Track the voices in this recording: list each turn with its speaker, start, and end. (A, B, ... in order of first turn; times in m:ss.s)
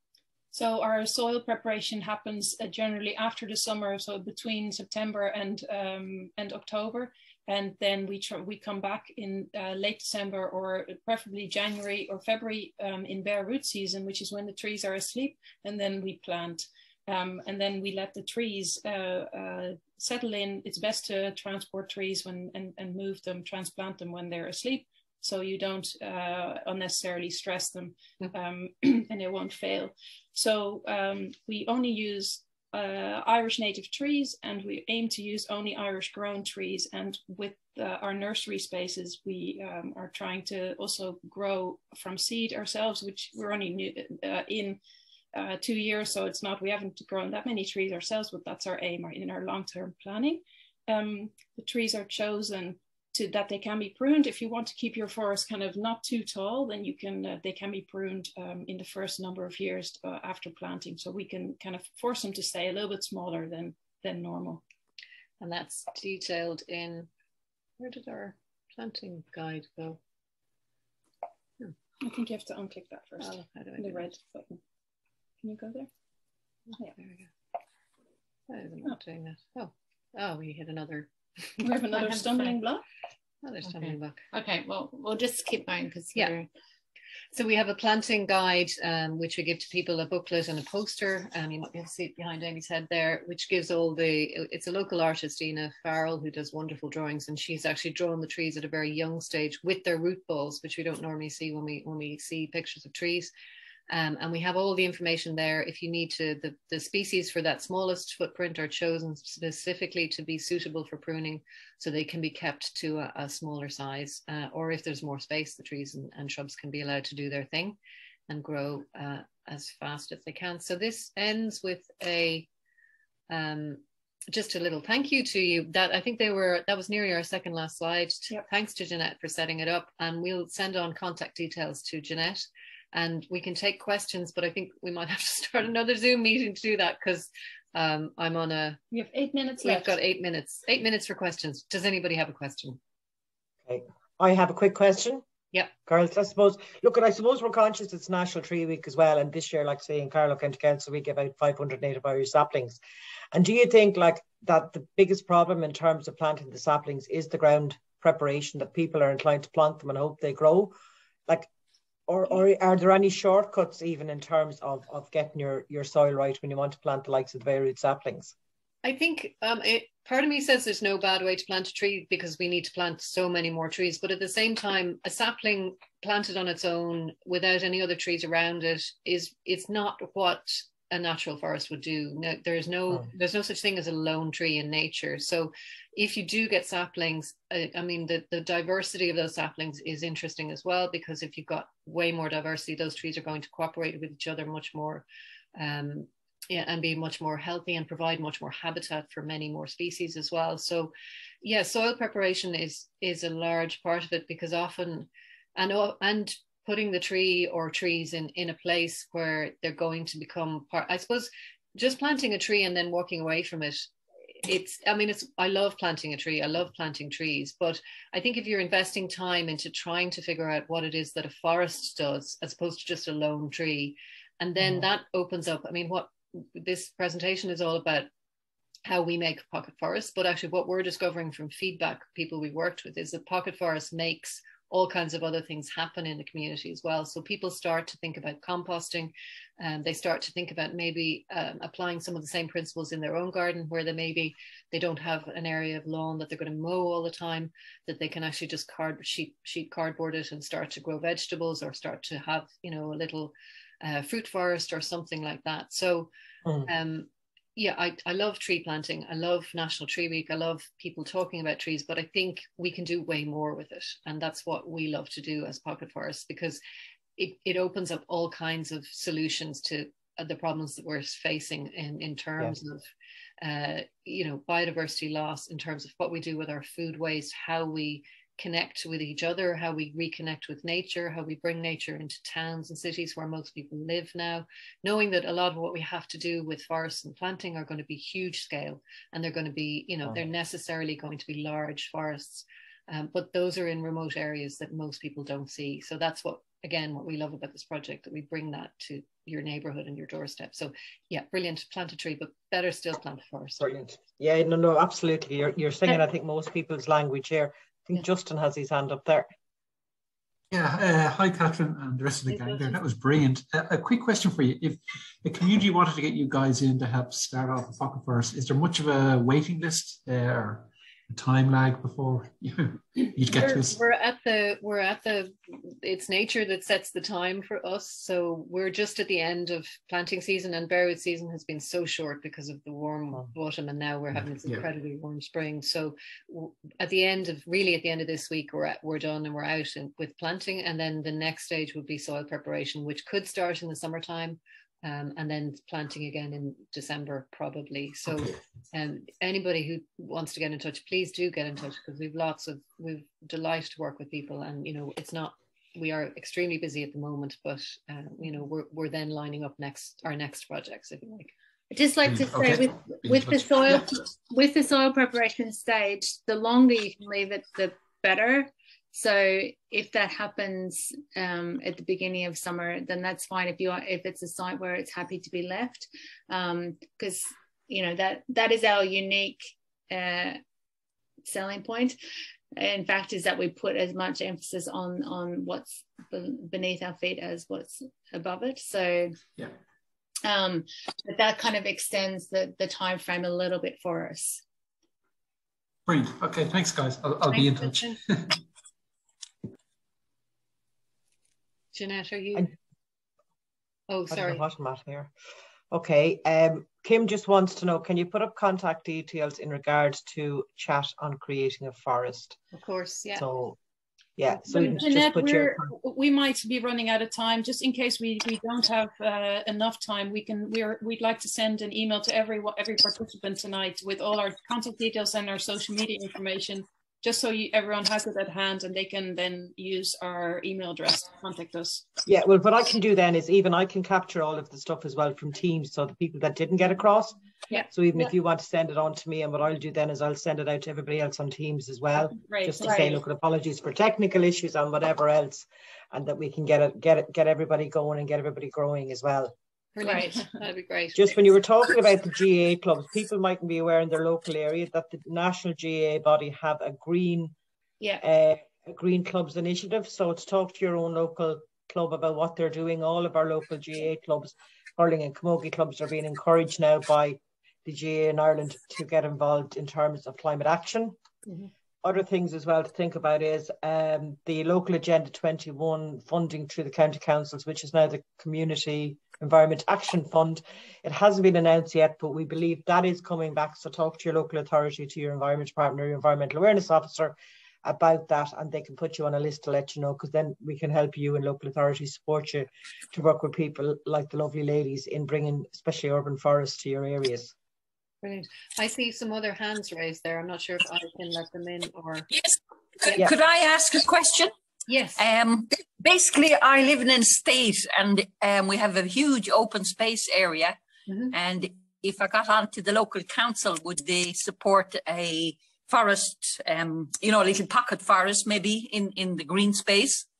0:00.5-0:44.8 A
0:45.3-1:04.6 A
1:05.4-1:07.1 B
1:07.8-1:10.0 B
1:12.0-1:14.6 A
1:13.2-1:14.1 B
1:15.4-1:15.9 A
1:16.7-1:17.3 B
1:18.5-1:21.7 B
1:21.6-1:22.8 A
1:23.4-1:24.2 B
1:23.6-1:26.5 C
1:27.3-1:43.3 B
1:43.9-1:57.8 B
1:58.3-2:02.5 B
2:03.3-2:18.8 B
2:18.9-2:20.0 A
2:19.6-2:22.8 B
2:23.7-2:25.2 D
2:25.8-2:32.8 D
2:33.3-2:40.7 D
2:42.1-2:48.3 D
2:48.8-3:33.9 B
3:34.4-3:48.1 B
3:48.9-4:16.1 B
4:16.6-4:26.6 B
4:27.2-4:32.9 B
4:33.4-5:03.7 B
5:03.6-5:09.3 D
5:10.5-5:23.8 E
5:12.3-5:12.8 B
5:23.3-6:01.3 B
5:34.2-5:34.6 E
5:48.1-5:48.4 E
6:01.7-6:20.4 C
6:02.0-6:03.9 E
6:21.2-6:22.0 C
6:22.5-6:29.2 C
6:30.2-6:34.4 C
6:35.9-6:38.4 E
6:37.3-6:38.0 B
6:41.7-6:42.5 B
6:43.9-6:44.4 B
6:44.1-6:45.1 D
6:45.7-6:52.4 D
6:52.5-6:53.2 B
6:53.2-6:53.6 D
6:54.2-6:55.6 D
6:54.5-7:11.8 A
7:12.0-7:29.3 D
7:22.1-7:23.0 A
7:22.6-7:23.0 C
7:29.7-7:31.2 B
7:29.8-7:30.2 C
7:30.9-7:37.3 D
7:38.0-7:50.9 D
7:51.8-8:17.3 D
8:18.0-8:22.1 B
8:22.1-8:24.3 F
8:24.7-8:25.0 B
8:25.0-8:30.6 F
8:30.9-8:31.1 B
8:31.1-8:40.0 F